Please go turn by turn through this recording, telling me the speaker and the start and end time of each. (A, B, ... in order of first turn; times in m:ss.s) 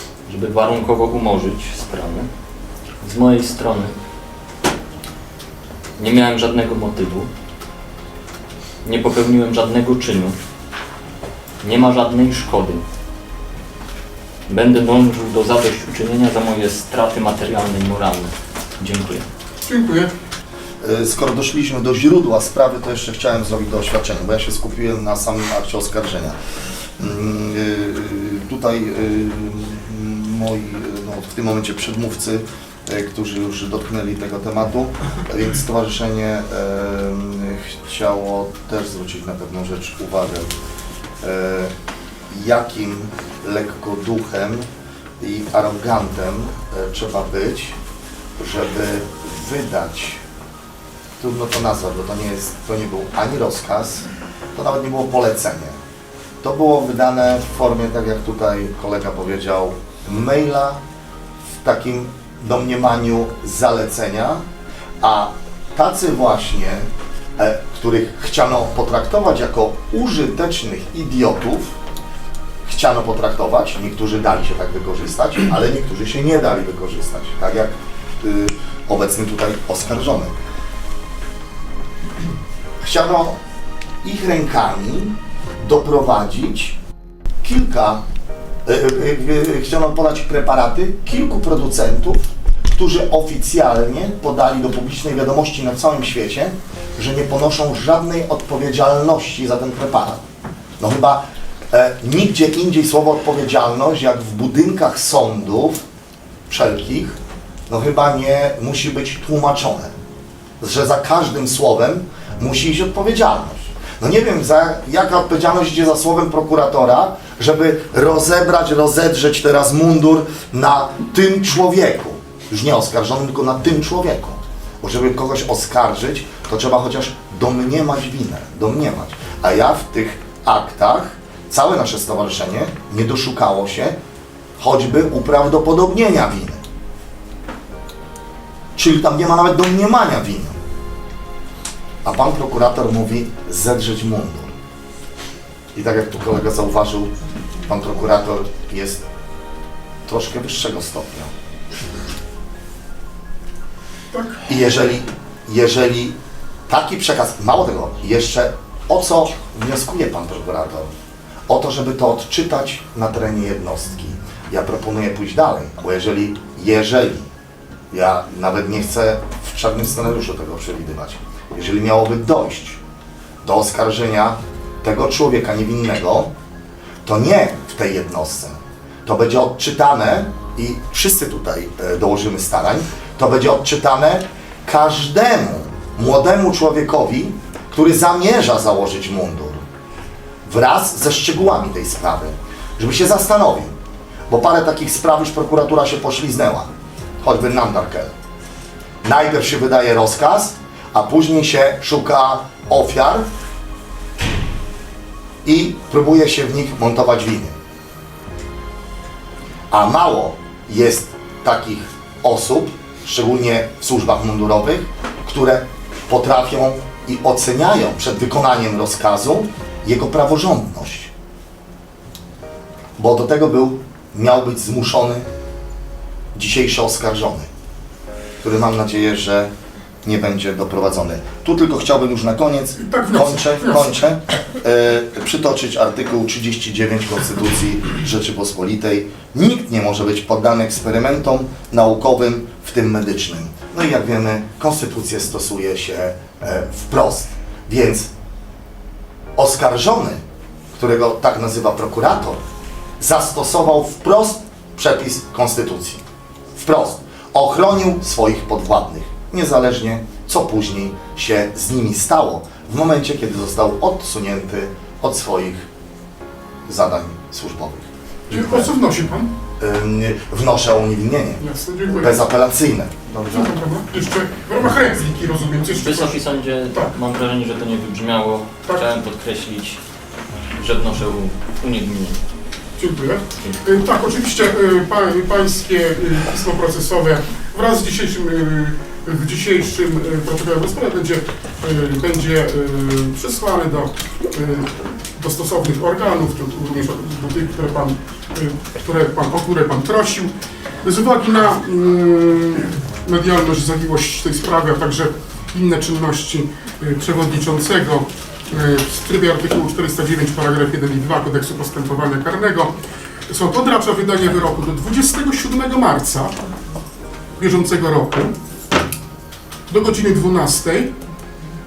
0:00.3-0:02.3 A
0:03.0-0:04.0 A
0:06.0-0:07.3 A
0:08.8-0:10.4 A
0:11.6-0:12.8 A
0:14.5-0:19.2 A
0:19.6-0:20.1 B
0:20.8-0:26.4 C
0:27.0-0:40.5 C
0:41.2-0:41.7 C
0:42.3-0:44.7 C
0:45.2-0:47.8 C
0:48.4-0:50.2 C
0:51.2-0:55.8 C
0:56.4-1:00.8 C
1:01.6-1:04.4 C
1:05.0-1:11.8 C
1:12.7-1:20.3 C
1:22.8-1:23.4 C
1:24.0-1:26.8 C
1:27.4-1:28.0 C
1:28.7-1:32.2 C
1:32.7-1:40.2 C
1:40.8-1:45.8 C
1:46.5-1:49.9 C
1:50.6-2:14.0 C
2:14.6-2:16.6 C
2:18.8-2:20.6 C
2:22.0-2:24.5 C
2:25.8-2:27.1 C
2:27.7-2:29.0 C
2:30.1-2:31.3 C
2:34.1-2:34.4 B
2:34.5-2:36.2 C
2:36.7-2:40.9 C
2:41.5-2:47.3 C
2:47.9-2:52.8 C
2:53.4-2:56.3 C
2:57.0-3:09.6 C
3:10.4-3:13.7 C
3:14.3-3:16.7 C
3:17.2-3:18.1 C
3:19.0-3:23.3 C
3:25.4-3:27.6 C
3:29.7-3:41.1 C
3:43.0-3:45.3 C
3:46.4-3:47.5 C
3:48.4-3:49.5 C
3:50.0-4:08.1 C
3:52.8-3:53.8 B
4:09.4-4:10.2 C
4:10.7-4:12.4 C
4:13.0-4:16.0 C
4:16.6-4:25.7 C
4:26.7-4:28.7 C
4:28.3-4:29.3 B
4:29.6-4:33.5 C
4:31.4-4:32.2 B
4:33.3-4:36.2 B
4:35.7-4:39.8 A
4:40.6-4:42.2 A
4:42.8-5:00.3 B
5:00.8-5:12.7 B
5:13.3-5:16.4 B
5:17.4-5:18.3 B
5:19.7-5:20.9 B